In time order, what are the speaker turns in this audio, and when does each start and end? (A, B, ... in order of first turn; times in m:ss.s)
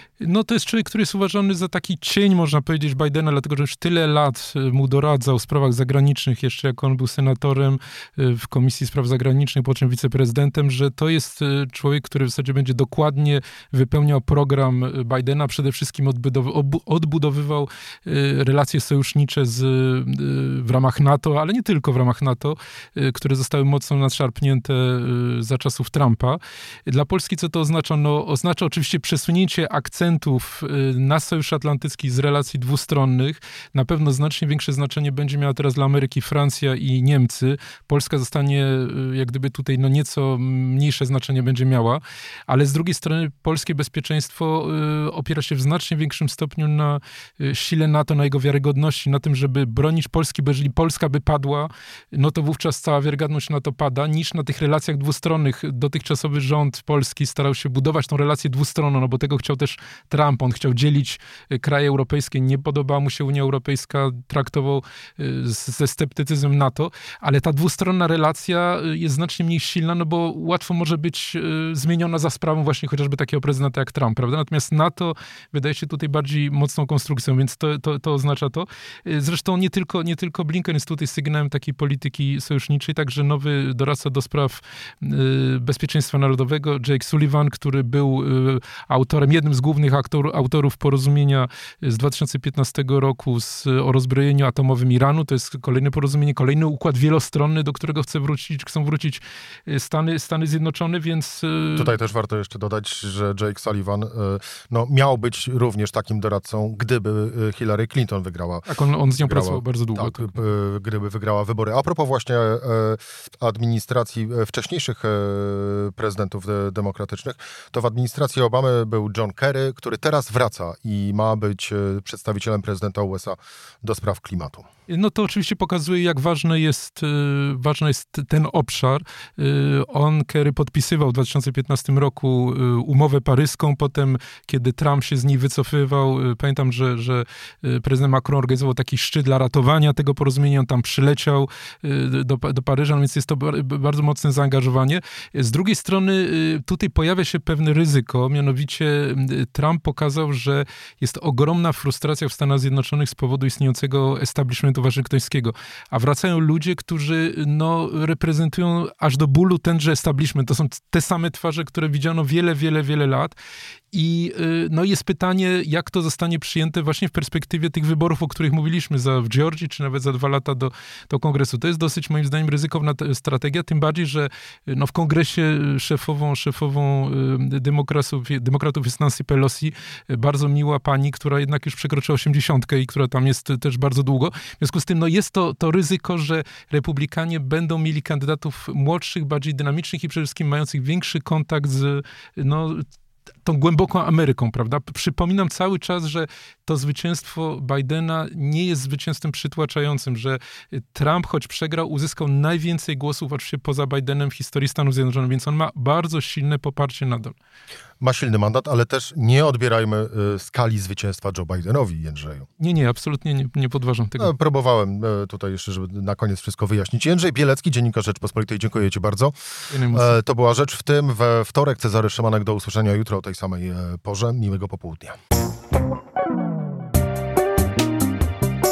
0:00.2-1:41.9 A
1:41.8-1:48.6 B
1:48.7-1:50.3 A
1:49.2-2:04.6 B
2:04.9-2:43.3 A
2:43.9-3:12.8 A
3:13.4-3:27.3 A
3:28.0-3:32.5 B
3:32.6-3:34.3 A
3:34.2-3:39.3 B
3:39.7-3:40.2 A
3:39.9-3:45.2 B